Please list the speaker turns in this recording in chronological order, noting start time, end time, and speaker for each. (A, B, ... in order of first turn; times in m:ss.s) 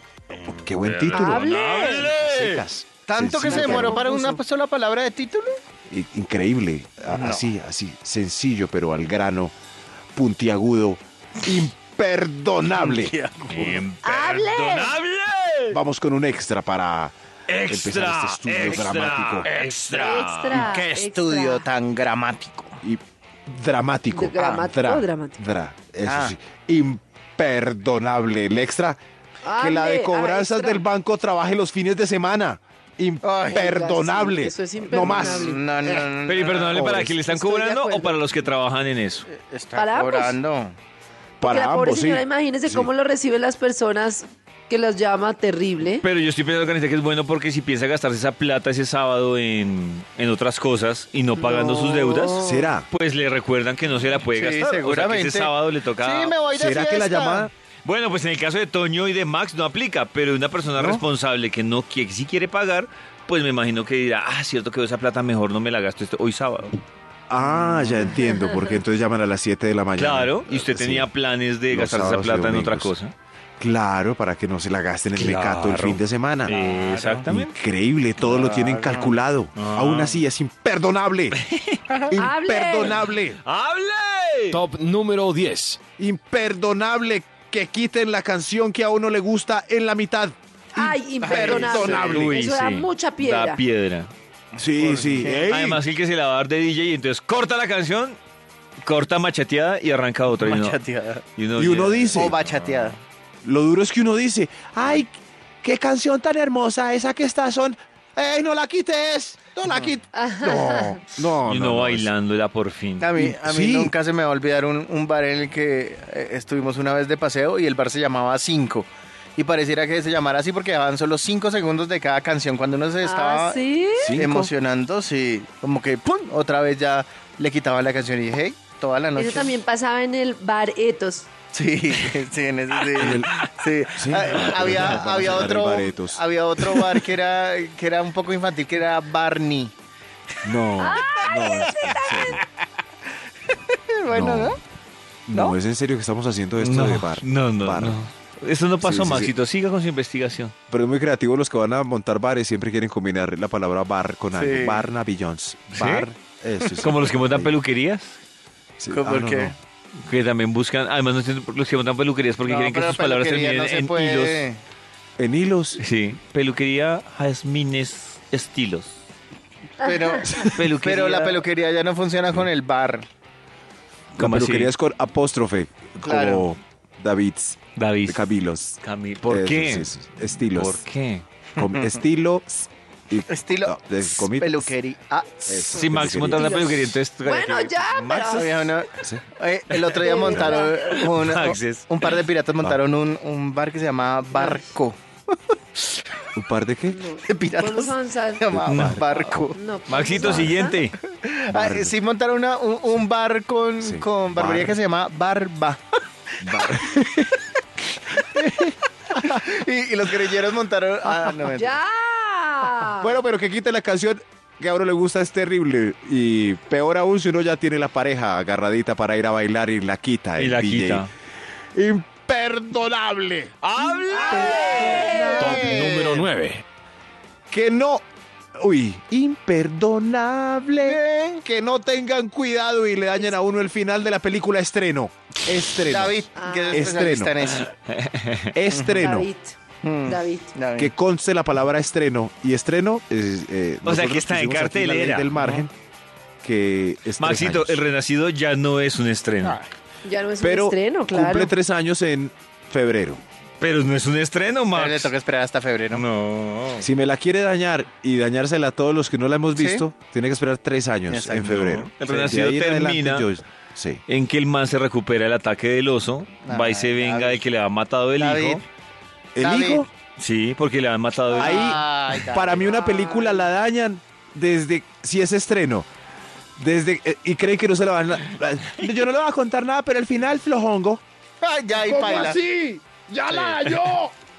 0:00.4-0:02.6 A
0:00.4-0:04.3 B
0:01.1-0:02.1 C
0:03.1-0:05.6 D
0:03.5-0:04.3 C
0:05.9-0:09.5 B
0:07.1-0:07.4 D
0:10.1-0:13.1 B
0:12.7-0:13.8 D
0:13.5-0:15.8 A
0:14.0-0:14.9 C
0:15.7-0:17.1 B
0:17.5-0:20.6 A
0:17.7-0:19.5 B
0:18.6-0:18.9 D
0:19.4-0:22.8 D
0:19.9-0:21.6 C
0:22.8-0:29.0 B
0:24.1-0:25.4 C
0:26.0-0:26.3 D
0:29.4-0:30.8 C
0:29.5-0:36.0 B
0:33.2-0:33.7 D
0:33.5-0:35.7 C
0:35.3-0:36.9 D
0:36.2-0:39.3 A
0:36.7-0:37.1 B
0:37.2-0:38.2 C
0:39.3-0:40.8 D
0:39.7-0:40.4 C
0:41.4-0:42.9 B
0:41.4-0:46.0 C
0:46.0-0:56.4 A
0:51.4-0:52.7 D
0:52.4-0:52.9 B
0:54.2-0:57.5 D
0:56.5-0:57.5 B
0:57.8-1:06.8 A
1:00.8-1:01.0 B
1:07.3-1:11.1 B
1:07.5-1:08.0 D
1:10.0-1:13.1 A
1:11.7-1:12.9 B
1:13.6-1:16.6 B
1:15.1-1:17.5 A
1:16.5-1:17.3 D
1:17.3-1:21.4 B
1:18.2-1:19.1 D
1:19.6-1:20.2 A
1:21.4-1:21.8 A
1:22.1-1:23.4 B
1:22.1-1:23.0 C
1:23.4-1:24.6 A
1:24.5-1:25.8 E
1:26.0-1:32.4 B
1:30.7-1:33.6 C
1:31.2-1:32.2 D
1:31.9-1:34.1 A
1:34.6-1:35.8 B
1:34.8-1:35.4 D
1:35.4-1:38.2 A
1:38.8-1:40.8 A
1:40.3-1:41.2 D
1:41.4-1:42.9 A
1:41.6-1:42.4 B
1:42.1-1:43.0 D
1:43.4-1:52.1 B
1:49.7-1:49.9 D
1:50.1-1:51.0 C
1:51.4-1:53.1 A
1:53.0-2:03.6 D
1:53.2-1:53.9 B
2:03.0-2:04.1 C
2:04.0-2:04.5 B
2:04.2-2:09.5 D
2:09.2-2:11.3 C
2:11.5-2:19.7 D
2:13.0-2:13.3 B
2:13.9-2:16.2 B
2:14.6-2:15.0 A
2:20.4-2:22.4 B
2:20.8-2:22.4 C
2:23.5-2:24.6 D
2:24.1-2:24.6 B
2:25.3-2:28.0 B
2:26.6-2:30.5 A
2:28.8-2:29.3 B
2:30.7-2:37.6 B
2:34.3-2:34.8 D
2:35.7-2:36.1 A
2:36.8-2:38.2 A
2:38.8-2:39.6 B
2:38.9-2:39.5 D
2:40.0-2:44.5 A
2:42.4-2:44.6 D
2:45.2-2:45.8 B
2:45.8-2:48.9 A
2:49.8-2:53.0 D
2:49.9-2:50.2 C
2:50.3-2:50.6 B
2:50.4-2:51.4 A
2:54.1-3:00.8 B
2:54.2-2:54.7 A
2:56.0-2:56.5 D
2:57.8-2:58.2 A
2:58.8-2:59.9 A
3:00.5-3:01.2 A
3:01.6-3:04.7 B
3:01.6-3:01.8 D
3:03.3-3:05.9 D
3:05.5-3:06.8 B
3:05.7-3:08.4 A
3:06.3-3:08.7 C
3:08.1-3:15.0 D
3:09.7-3:10.0 A
3:10.0-3:10.8 C
3:10.7-3:12.2 A
3:14.3-3:14.6 C
3:15.5-3:15.8 D
3:16.4-3:17.0 B
3:16.9-3:18.7 C
3:17.3-3:19.6 D
3:18.6-3:19.0 B
3:18.6-3:19.1 A
3:19.2-3:20.8 C
3:19.9-3:21.0 A
3:20.2-3:20.6 B
3:21.0-3:25.8 D
3:21.5-3:22.0 B
3:23.8-3:24.8 B
3:26.4-3:27.0 B
3:26.6-3:27.4 D
3:28.1-3:31.8 D
3:31.5-3:33.2 C
3:33.0-3:41.1 B
3:40.4-3:41.1 A
3:41.7-3:43.5 B
3:43.6-3:45.2 A
3:44.0-3:46.3 D
3:44.2-3:45.6 C
3:44.2-3:45.8 B
3:45.3-3:46.6 E
3:47.5-3:48.0 B
3:48.6-3:57.4 B
3:50.8-3:51.4 D
3:55.8-3:57.7 D
3:56.3-3:57.0 C
3:57.6-3:58.5 A
3:58.5-3:59.3 B
3:58.7-3:59.1 D
3:59.0-4:00.5 C
3:59.8-4:00.9 D
4:00.8-4:05.7 B
4:03.8-4:05.3 A
4:05.4-4:05.6 D
4:06.4-4:07.8 B
4:07.2-4:09.6 A
4:10.0-4:11.5 C
4:10.4-4:13.2 B
4:13.6-4:15.1 A
4:14.7-4:16.0 D
4:15.9-4:16.9 A
4:16.8-4:24.0 B
4:19.5-4:19.8 D
4:21.1-4:21.9 D
4:21.8-4:23.3 A
4:24.1-4:28.6 A
4:26.4-4:27.4 D
4:28.1-4:28.6 D
4:29.3-4:29.9 B
4:29.4-4:29.8 D
4:30.2-4:32.2 A
4:31.3-4:33.4 D
4:31.4-4:35.9 B
4:36.6-4:41.0 B
4:41.4-4:42.4 D
4:41.8-4:44.1 B
4:43.3-4:43.6 D